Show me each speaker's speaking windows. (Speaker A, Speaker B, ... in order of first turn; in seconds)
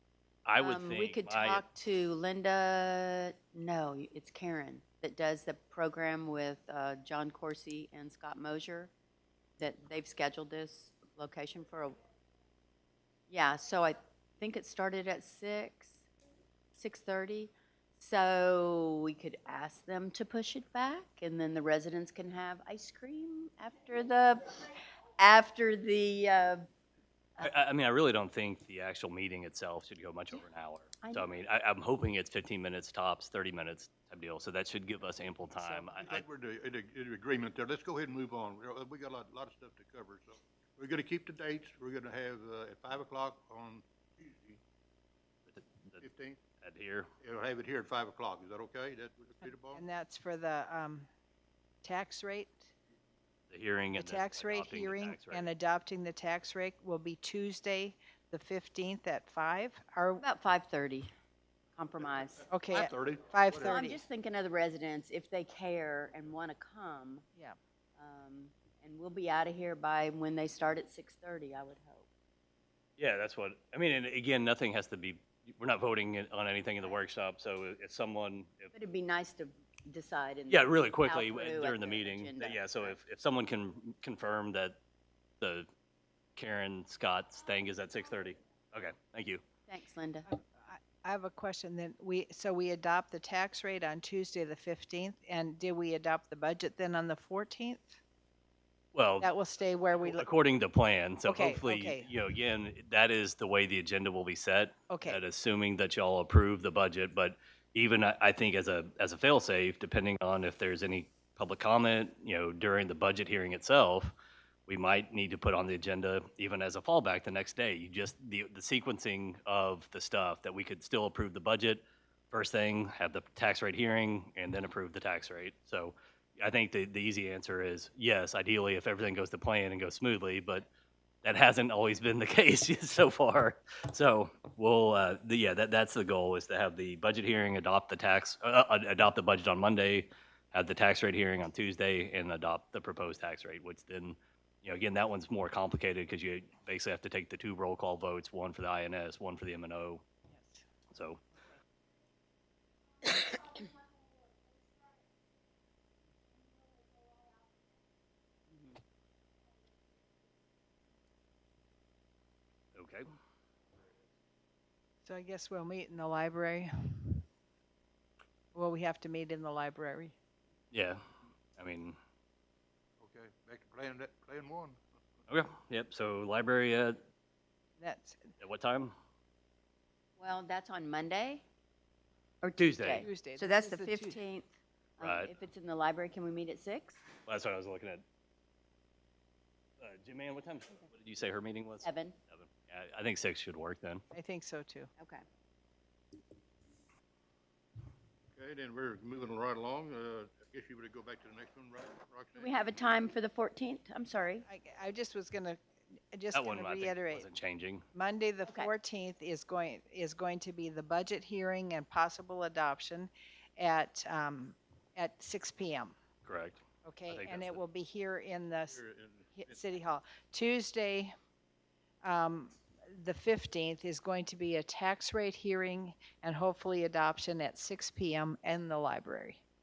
Speaker A: 0.4-1.6, 27.4-36.2, 45.5-46.0, 46.6-47.1, 53.5-55.5, 73.0-78.7, 80.5-84.8, 85.4-85.7, 86.3-89.4, 98.9-99.3, 100.0-114.1, 114.7-130.7, 131.2-150.0, 150.9-151.2, 162.7-163.1, 170.7-171.0, 171.6-172.0, 175.3-177.0, 178.4-178.9, 182.6-183.1, 185.0-185.3, 187.2-188.0, 189.8-194.0, 206.3-207.8, 216.2-217.6
Speaker B: 0.6-8.9, 9.6-12.0, 13.3-16.0, 16.7-26.6, 31.0-31.3, 60.2-61.1, 61.8-62.5, 63.7-67.2, 68.0-72.0, 78.7-83.0, 89.7-90.3, 158.5-158.8, 180.2-181.4, 182.4-187.0, 191.8-192.2, 195.0-195.2, 202.4-204.5, 208.4-208.7
Speaker C: 35.7-44.6, 46.0-46.4, 47.2-49.8, 62.6-63.8, 173.0-174.8, 198.3-202.7, 218.7-219.7
Speaker D: 49.7-51.1, 51.8-52.7, 54.0-60.2, 62.5-64.0, 90.3-98.0, 99.2-100.3, 101.2-102.1, 104.9-105.2, 150.3-150.6, 165.0-167.2, 168.5-170.1, 177.8-178.3, 183.0-184.2, 194.1-194.9, 204.5-205.6, 206.1-207.3, 207.9-215.9, 216.8-218.8, 219.3-221.1, 222.0-229.4